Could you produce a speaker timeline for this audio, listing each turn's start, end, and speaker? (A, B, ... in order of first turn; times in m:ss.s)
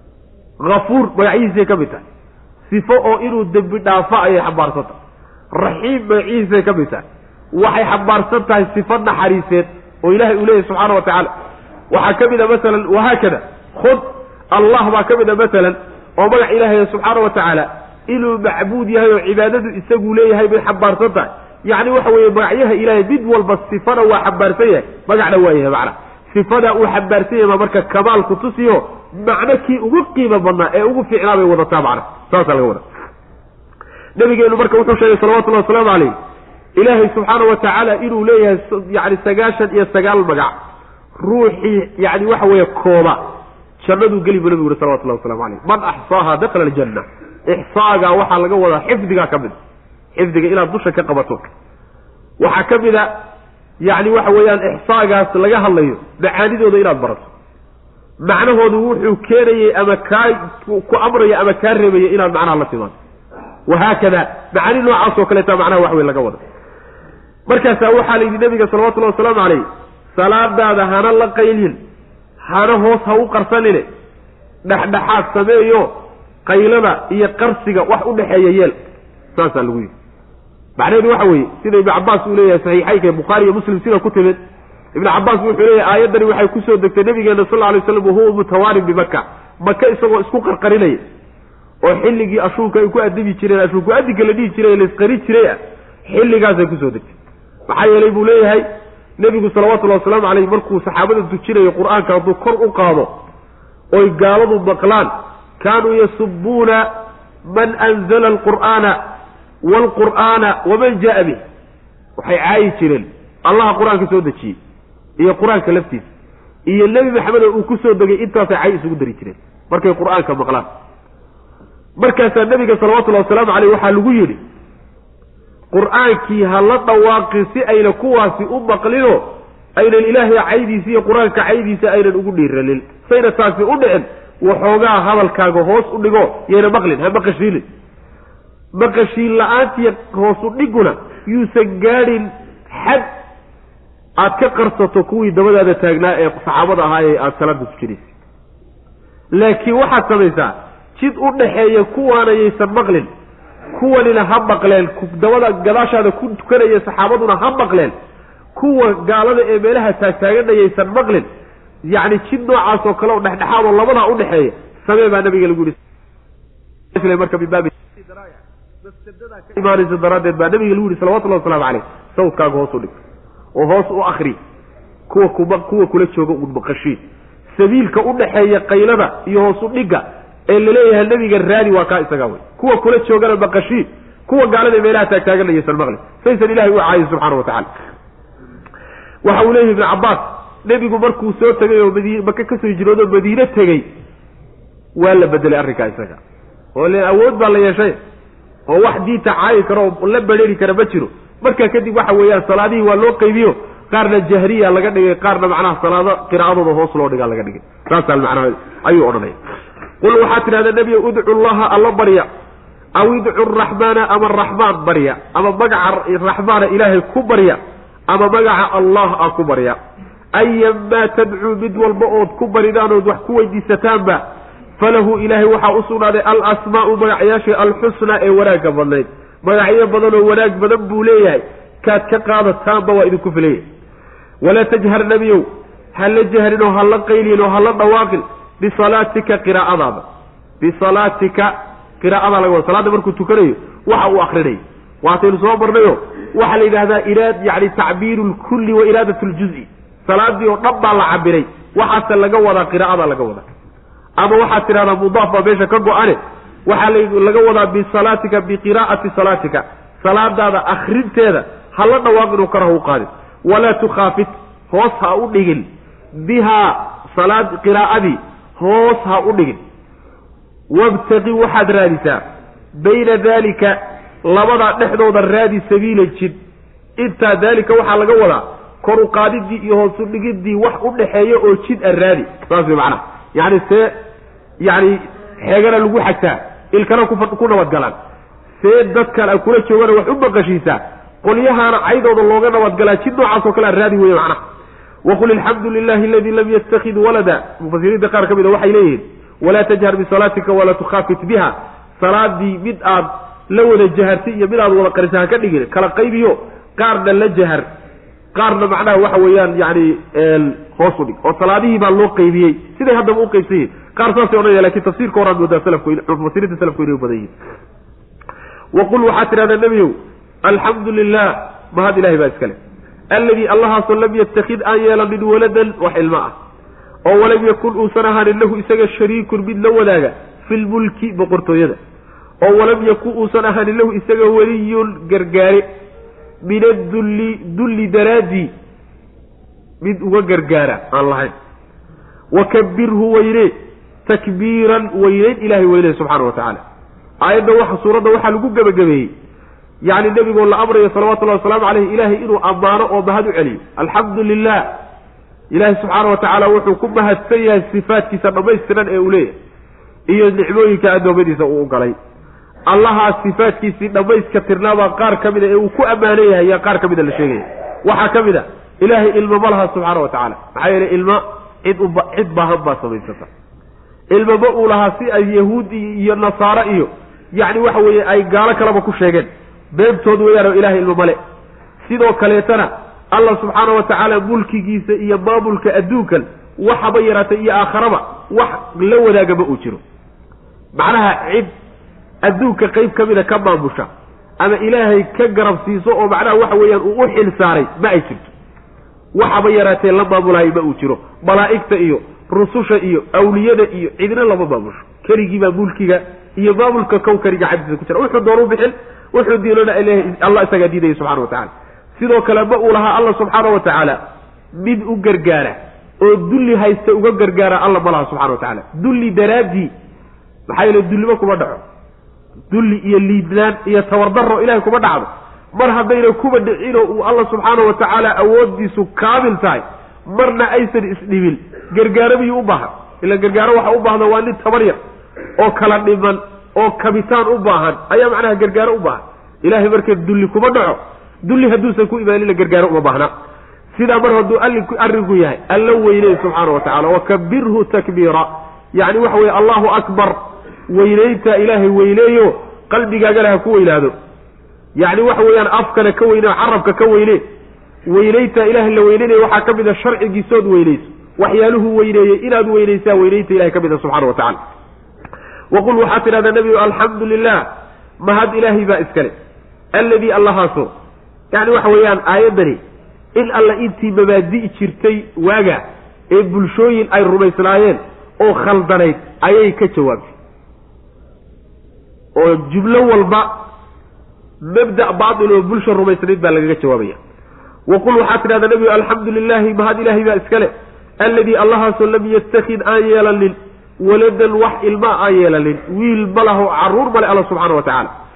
0:00.6-0:02.0 A
0:02.7-0:05.0 A
0:05.6-0:11.3 A
0:11.9-0:32.8 A
0:34.2-0:36.2 A
0:36.8-0:40.5 A
0:41.2-0:43.2 A
0:43.8-0:49.6 A
0:50.2-0:51.4 A
0:52.4-0:53.1 A
0:53.8-0:57.3 A
0:58.2-1:03.0 A
1:03.7-1:06.4 A
1:07.5-1:11.8 A
1:12.4-1:13.9 A
1:14.7-1:15.9 A
1:16.5-1:18.8 A
1:19.4-1:19.9 A
1:20.8-1:24.4 A
1:25.0-1:31.0 A
1:31.8-1:37.1 A
1:37.7-1:38.6 A
1:39.2-1:43.1 A
1:43.9-1:46.9 A
1:47.5-1:49.0 A
1:49.6-1:51.4 A
1:52.2-1:54.6 A
1:55.2-1:56.1 A
1:56.7-2:00.7 A
2:02.0-2:04.4 A
2:05.7-2:17.6 A
2:18.8-2:23.1 A
2:24.2-2:28.2 A
2:29.3-2:33.1 A
2:33.7-2:37.9 A
2:38.6-2:41.3 A
2:41.9-2:45.8 A
2:46.9-2:53.0 A
2:53.6-2:54.4 A
2:55.1-2:57.0 A
2:57.5-3:07.7 A
3:09.2-3:13.9 A
3:15.0-3:16.2 A
3:16.8-3:18.0 A
3:18.7-3:29.4 A
3:30.0-3:32.3 A
3:33.0-3:39.8 A
3:40.4-3:44.2 A
3:44.8-3:53.7 A
3:54.4-4:00.0 A
4:00.6-4:13.5 A
4:14.2-4:29.6 A
4:30.7-4:32.2 A
4:32.7-4:36.4 A
4:37.0-4:43.9 A
4:44.6-4:48.0 A
4:48.6-4:54.4 A
4:55.0-5:07.7 A
5:08.3-5:17.3 A
5:18.7-5:22.6 A
5:23.1-5:26.4 A
5:27.1-5:31.8 A
5:32.4-5:35.6 A
5:36.4-5:38.5 A
5:39.8-5:41.3 A
5:42.3-5:43.5 A
5:44.1-5:46.6 A
5:47.2-5:49.1 A
5:49.8-5:54.7 A
5:55.5-5:59.4 A
6:00.1-6:02.0 A
6:02.7-6:13.3 A
6:14.1-6:21.2 A
6:21.8-6:29.8 A
6:30.8-6:31.5 A
6:32.2-6:33.9 A
6:34.4-6:38.3 A
6:39.2-6:54.0 A
6:54.6-6:59.7 A
7:00.5-7:01.6 A
7:02.5-7:14.8 A
7:15.4-7:23.1 A
7:23.7-7:30.2 A
7:30.7-7:33.9 A
7:34.8-7:37.2 A
7:37.9-7:44.4 A
7:45.5-7:47.5 A
7:48.0-7:49.1 A
7:49.7-7:50.7 A
7:51.3-7:52.6 A
7:53.2-8:00.2 A
8:02.2-8:03.3 A
8:04.4-8:07.0 A
8:07.7-8:17.9 A